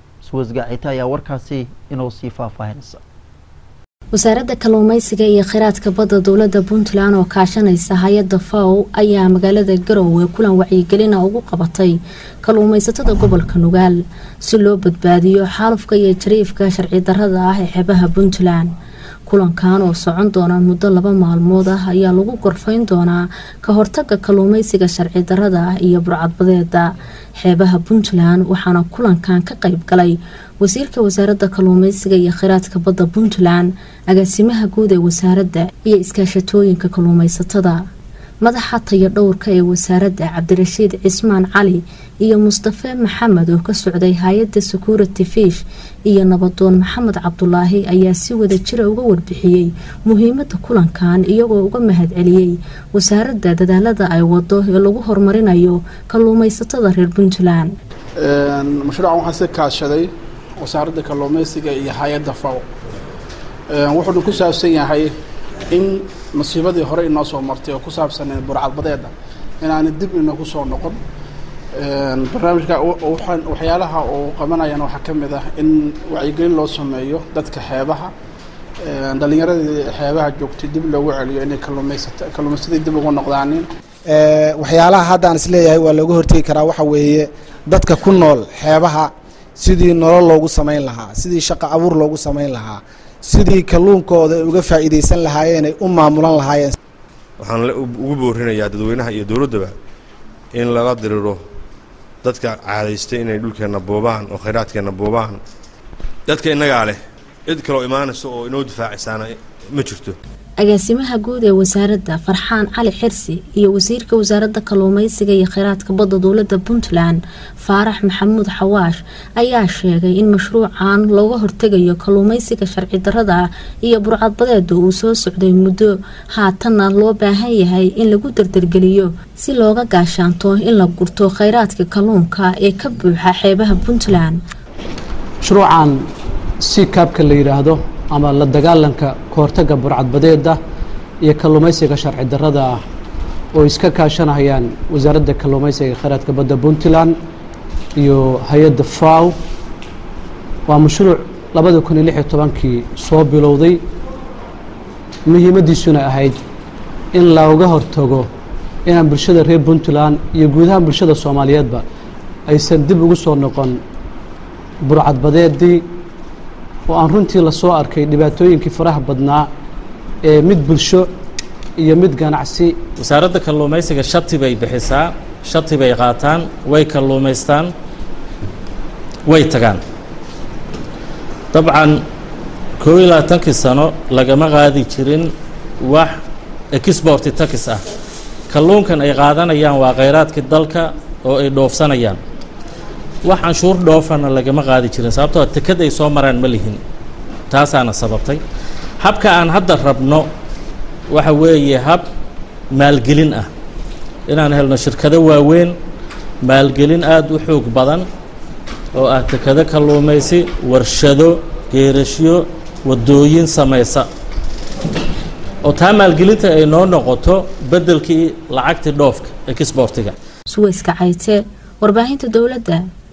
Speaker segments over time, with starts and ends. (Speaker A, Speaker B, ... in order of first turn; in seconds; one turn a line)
Speaker A: 0.2-3.0
Speaker B: 4.1-18.7
Speaker B: 19.3-37.8
Speaker B: 38.4-57.7
Speaker C: 58.2-62.6
Speaker C: 63.7-65.1
Speaker C: 65.7-71.0
Speaker C: 71.8-78.1
Speaker C: 78.8-83.7
Speaker D: 84.1-96.8
Speaker E: 97.4-99.7
Speaker E: 100.5-101.4
Speaker E: 102.2-105.4
Speaker E: 106.3-110.2
Speaker B: 110.6-134.4
Speaker F: 135.4-136.0
Speaker F: 136.6-140.6
Speaker F: 141.2-142.8
Speaker F: 143.6-147.2
Speaker F: 148.0-149.3
Speaker F: 150.7-153.8
Speaker F: 155.3-156.4
Speaker F: 157.1-158.2
Speaker F: 158.9-161.8
Speaker F: 162.5-163.8
Speaker F: 164.8-165.8
Speaker F: 166.9-169.5
Speaker F: 170.3-171.1
Speaker F: 171.8-172.7
Speaker G: 173.0-177.7
Speaker G: 179.3-179.8
Speaker G: 181.5-182.0
Speaker G: 182.8-186.1
Speaker G: 186.7-187.8
Speaker G: 188.5-192.2
Speaker G: 193.2-196.8
Speaker G: 197.5-198.4
Speaker G: 199.0-200.3
Speaker G: 201.1-202.0
Speaker G: 202.7-203.5
Speaker G: 204.3-205.8
Speaker G: 206.4-208.1
Speaker G: 209.0-214.1
Speaker G: 215.6-220.2
Speaker B: 220.5-222.8